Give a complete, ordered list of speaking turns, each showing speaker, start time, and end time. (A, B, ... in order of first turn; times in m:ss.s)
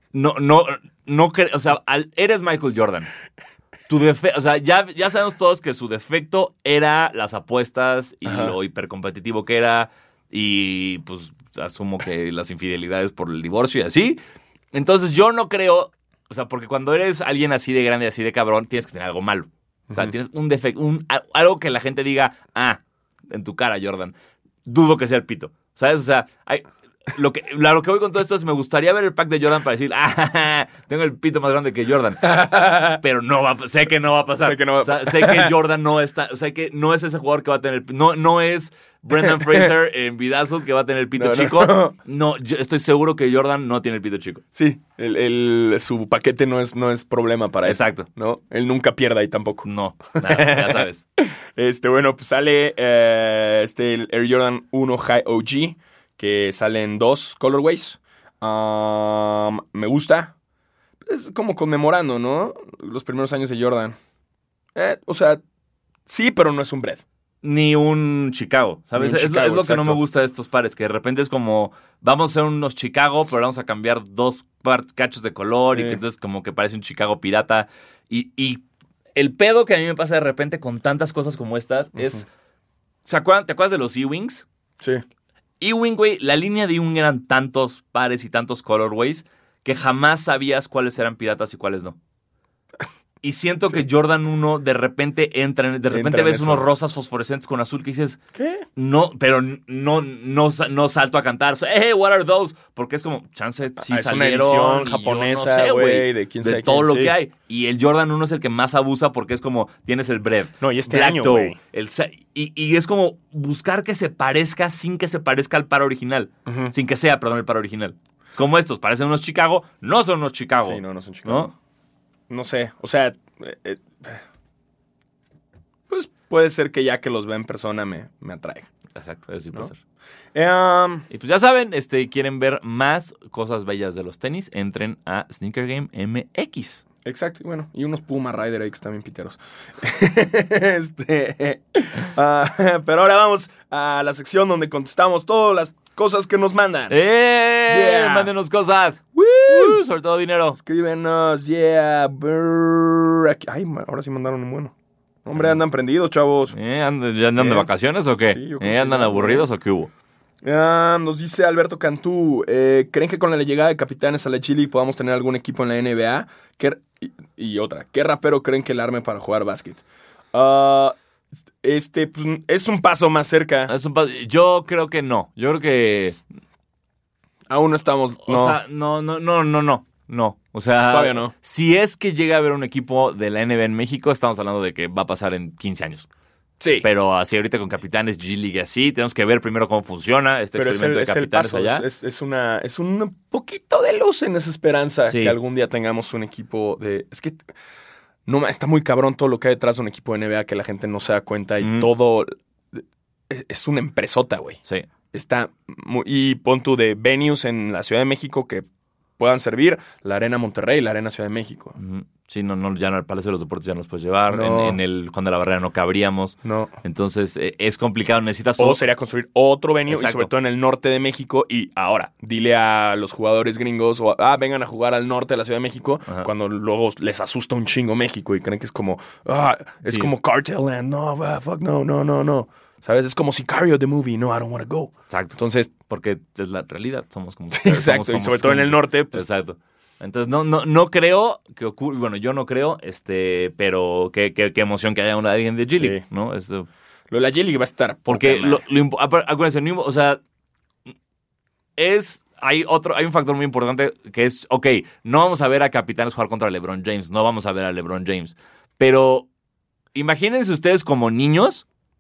0:00.1-0:03.1 A
0:03.9-0:14.2 A
0:08.2-0:08.6 B
0:14.7-0:44.4 A
0:19.9-0:20.2 B
0:32.2-0:33.0 B
0:34.4-0:35.6 B
0:39.2-0:39.7 B
0:41.2-0:42.0 B
0:44.5-1:00.3 B
0:47.6-0:48.1 A
0:49.6-0:51.0 A
1:01.0-1:04.0 B
1:04.8-1:05.4 B
1:06.1-1:07.0 B
1:07.4-1:18.6 A
1:09.0-1:10.0 B
1:15.7-1:16.0 B
1:19.2-1:22.2 A
1:22.0-1:22.2 B
1:23.0-1:24.5 A
1:25.6-1:32.0 A
1:33.2-1:38.2 A
1:35.9-1:36.7 B
1:38.4-1:38.7 B
1:38.8-2:01.5 A
1:43.8-1:47.1 B
1:50.6-1:51.6 B
1:56.5-1:56.7 B
2:00.6-2:01.5 B
2:02.3-2:04.2 B
2:05.9-2:08.7 B
2:09.0-2:09.8 A
2:10.3-2:11.1 B
2:11.1-2:16.8 A
2:17.0-2:27.0 B
2:26.9-2:30.6 A
2:27.7-2:28.3 B
2:29.5-2:29.8 B
2:30.6-2:34.7 B
2:35.2-2:36.6 B
2:36.5-2:39.9 A
2:37.4-2:37.7 B
2:38.3-2:39.5 B
2:40.4-2:51.0 B
2:51.6-2:53.7 B
2:53.7-2:56.2 A
2:57.5-2:58.6 B
2:58.3-3:06.1 A
3:00.9-3:01.3 B
3:06.6-3:06.9 B
3:06.8-3:11.8 A
3:10.6-3:17.4 B
3:15.1-3:15.4 A
3:18.3-3:24.6 B
3:21.6-3:21.9 A
3:25.1-3:28.7 B
3:29.2-3:31.8 B
3:31.8-3:38.8 A
3:34.3-3:34.8 B
3:36.4-3:36.7 B
3:38.6-3:55.7 B
3:39.9-3:40.3 A
3:49.9-3:50.1 A
3:55.1-3:55.4 A
3:55.9-4:06.7 A
3:57.5-3:59.3 B
4:05.7-4:06.0 B
4:07.1-4:08.6 B
4:08.1-4:10.2 A
4:11.8-4:19.3 A
4:19.9-4:21.7 A